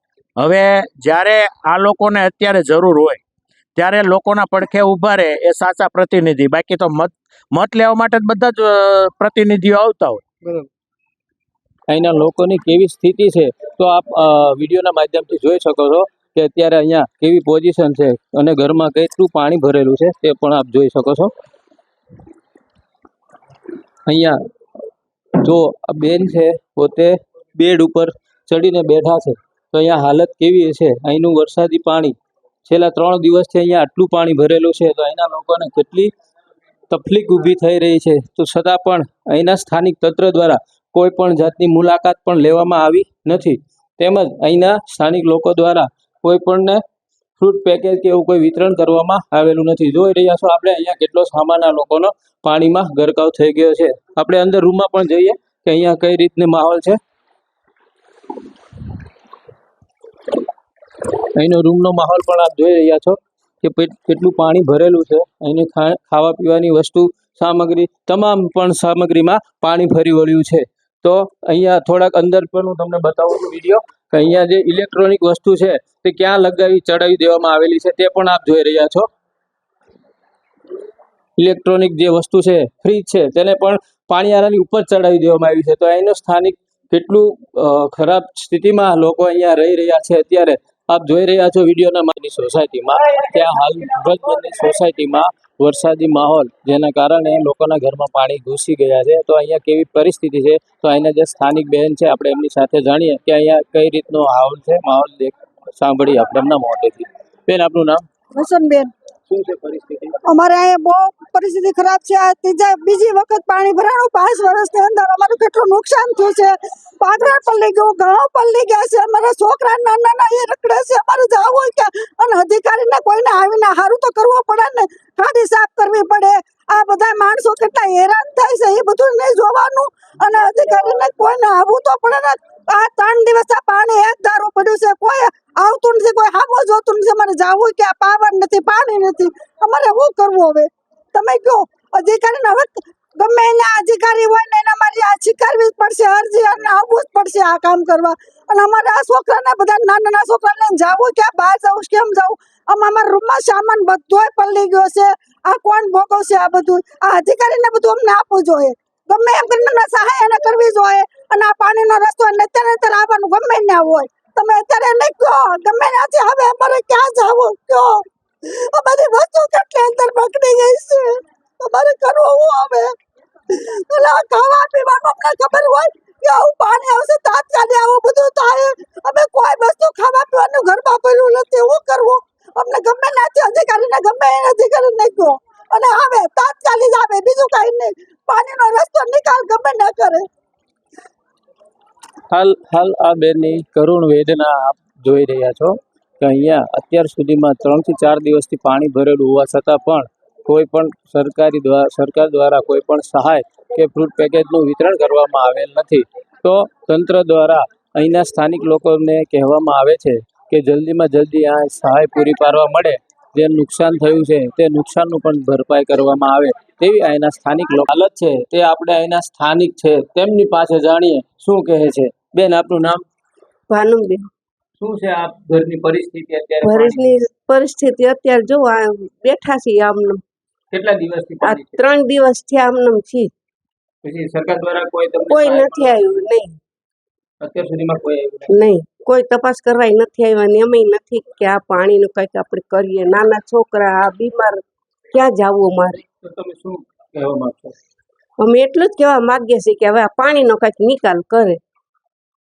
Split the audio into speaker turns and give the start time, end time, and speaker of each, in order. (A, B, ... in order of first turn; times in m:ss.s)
0:00.4-0:03.2 A
0:03.8-0:10.2 A
0:11.9-0:21.3 B
0:24.1-0:24.4 B
0:25.4-0:32.2 B
0:32.7-0:36.1 B
0:36.9-0:46.8 B
0:47.4-0:57.0 B
1:01.4-1:19.1 B
1:21.4-1:48.0 B
1:48.3-1:48.9 C
1:49.3-1:50.2 B
1:50.3-2:53.0 C
2:53.5-3:10.3 C
3:12.3-3:43.0 B
3:43.7-3:44.3 D
3:44.8-3:47.2 B
3:46.6-3:50.2 D
3:50.7-3:52.0 B
3:51.4-3:53.3 D
3:54.0-3:56.4 B
3:55.3-3:56.6 D
3:57.4-3:58.7 B
3:58.5-4:04.6 D
4:05.1-4:06.0 D
4:06.2-4:07.7 B
4:08.4-4:11.6 D